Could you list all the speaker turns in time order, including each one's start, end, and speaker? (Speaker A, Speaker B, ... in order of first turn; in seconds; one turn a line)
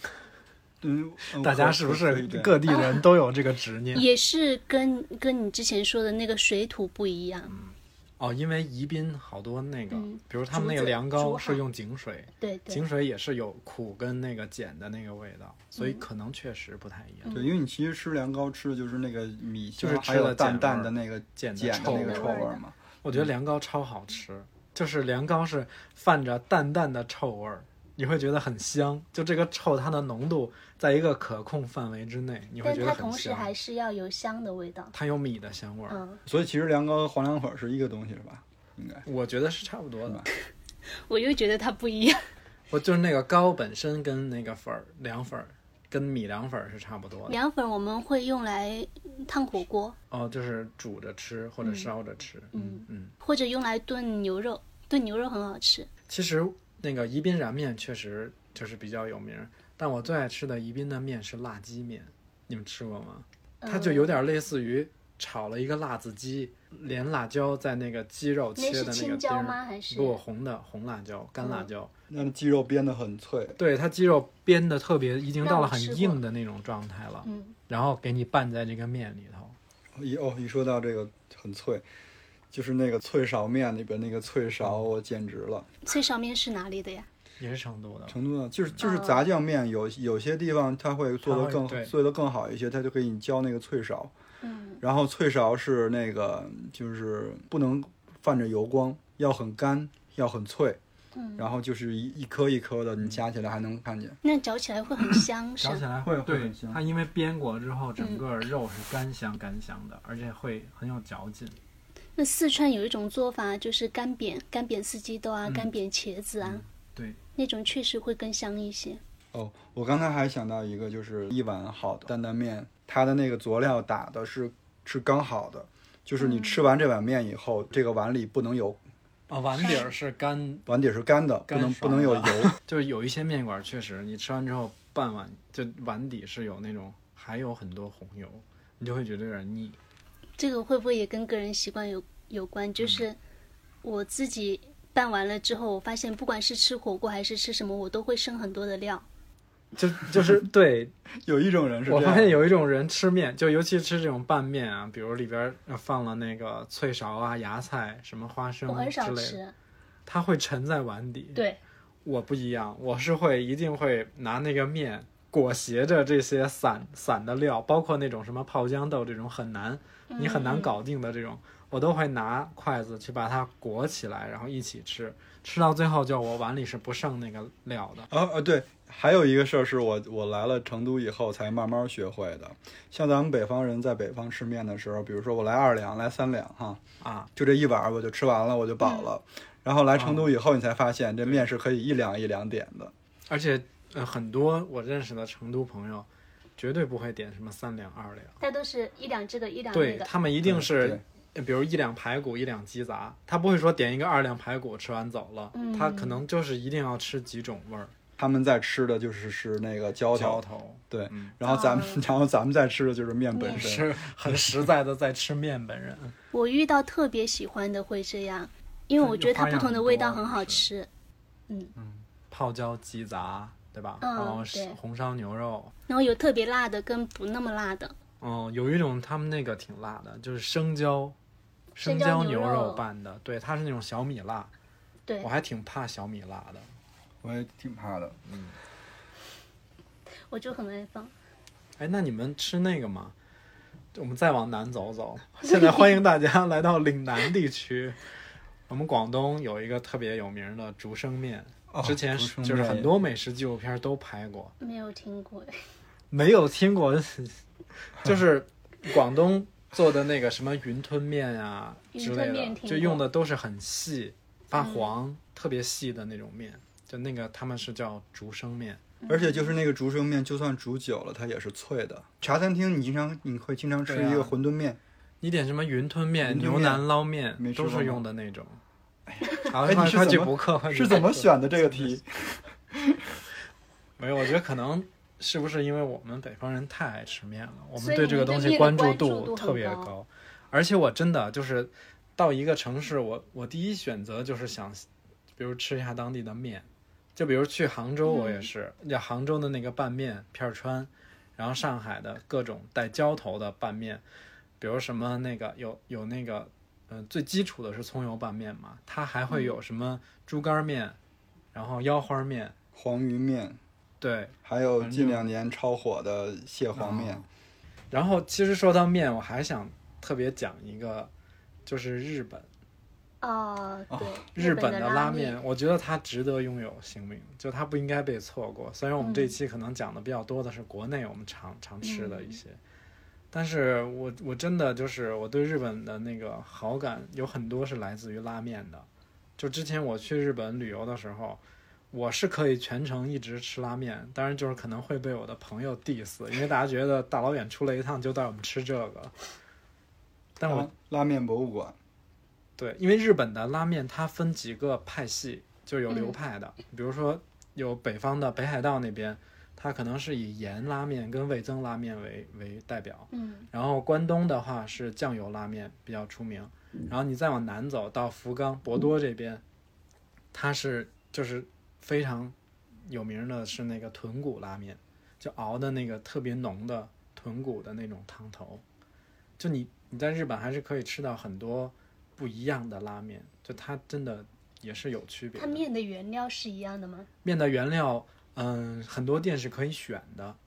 Speaker A: 0.8-2.6
Speaker B: 1.4-4.0
Speaker C: 2.7-2.9
Speaker C: 3.9-7.5
Speaker B: 7.5-17.4
Speaker C: 9.9-11.6
Speaker C: 12.4-12.8
Speaker C: 15.7-16.0
Speaker C: 17.2-17.5
Speaker A: 17.3-23.2
Speaker B: 19.8-22.4
Speaker C: 21.7-22.6
Speaker B: 23.0-33.5
Speaker C: 32.6-34.9
Speaker B: 34.9-36.0
Speaker C: 35.9-36.2
Speaker A: 36.2-39.0
Speaker B: 39.0-40.3
Speaker C: 40.9-42.3
Speaker B: 42.7-47.4
Speaker C: 47.3-50.0
Speaker B: 50.1-53.1
Speaker C: 51.6-51.9
Speaker C: 52.5-55.9
Speaker B: 56.1-71.9
Speaker C: 63.6-64.2
Speaker C: 68.6-70.2
Speaker C: 71.4-71.7
Speaker A: 72.1-73.6
Speaker B: 73.6-79.5
Speaker C: 75.4-76.2
Speaker C: 77.2-77.5
Speaker A: 79.9-81.8
Speaker A: 82.5-85.7
Speaker C: 85.8-87.1
Speaker B: 87.4-88.2
Speaker A: 88.1-94.1
Speaker C: 88.8-89.2
Speaker B: 91.2-91.9
Speaker C: 94.4-94.8
Speaker A: 94.8-100.8
Speaker C: 101.1-101.5
Speaker A: 101.4-104.2
Speaker C: 104.2-105.8
Speaker B: 105.6-111.6
Speaker A: 106.0-106.8
Speaker C: 108.0-108.2
Speaker C: 112.2-116.6
Speaker B: 115.4-115.7
Speaker B: 116.9-117.2
Speaker C: 117.4-119.0
Speaker A: 119.3-128.8
Speaker C: 126.2-126.6
Speaker B: 129.3-130.7
Speaker C: 129.6-129.9
Speaker A: 130.7-132.5
Speaker B: 131.5-139.8
Speaker C: 140.4-143.2
Speaker C: 143.8-149.1
Speaker B: 149.7-150.9
Speaker A: 151.2-152.4
Speaker B: 151.8-159.4
Speaker C: 158.7-159.5
Speaker B: 160.1-161.4
Speaker C: 161.3-161.6
Speaker B: 162.0-178.1
Speaker C: 170.1-170.8
Speaker A: 178.1-186.8
Speaker B: 187.0-187.3
Speaker A: 187.3-192.9
Speaker C: 188.8-189.1
Speaker B: 189.9-190.3
Speaker B: 193.3-198.3
Speaker C: 198.4-200.1
Speaker B: 199.7-207.9
Speaker A: 200.4-201.0
Speaker C: 205.5-206.2
Speaker A: 208.2-214.4
Speaker B: 210.1-211.3
Speaker C: 211.4-212.0
Speaker C: 213.3-213.7
Speaker B: 213.5-216.1
Speaker C: 216.3-220.9
Speaker B: 219.0-220.7
Speaker A: 221.8-222.0
Speaker B: 222.3-225.7
Speaker C: 224.0-224.8
Speaker C: 225.9-227.9
Speaker B: 228.2-231.2
Speaker B: 231.8-234.5
Speaker C: 231.8-232.8
Speaker B: 235.2-236.7
Speaker A: 237.2-238.2
Speaker B: 238.2-238.6
Speaker C: 240.3-241.1
Speaker B: 241.8-243.1
Speaker B: 243.9-248.0
Speaker C: 245.4-245.9
Speaker B: 248.7-254.5
Speaker A: 251.7-252.9
Speaker C: 254.6-255.5
Speaker B: 256.1-268.8
Speaker C: 261.9-263.1
Speaker C: 264.5-264.9
Speaker C: 269.0-269.5
Speaker A: 269.1-274.8
Speaker B: 273.9-274.3
Speaker B: 275.2-278.6
Speaker A: 276.2-278.0
Speaker A: 279.1-283.0
Speaker B: 279.5-282.0
Speaker B: 284.0-294.9
Speaker C: 287.8-289.9
Speaker B: 295.4-304.0
Speaker C: 298.1-298.5
Speaker B: 304.6-311.0
Speaker C: 309.3-309.6
Speaker B: 311.5-312.5
Speaker A: 312.7-313.6
Speaker B: 314.0-315.3
Speaker A: 314.4-317.2
Speaker B: 316.7-317.2
Speaker B: 317.9-321.1
Speaker B: 321.6-322.5
Speaker C: 323.2-325.4
Speaker A: 323.9-324.2
Speaker B: 324.3-332.6
Speaker C: 329.0-329.4
Speaker C: 331.8-332.4
Speaker B: 333.3-338.9
Speaker B: 339.4-341.4
Speaker B: 341.9-349.1
Speaker B: 350.4-350.7
Speaker A: 350.5-351.8
Speaker B: 352.6-369.4
Speaker C: 355.9-356.2
Speaker C: 363.1-363.5
Speaker B: 370.3-372.3
Speaker B: 372.9-378.6
Speaker B: 379.4-385.6
Speaker C: 385.3-387.1
Speaker B: 387.2-390.4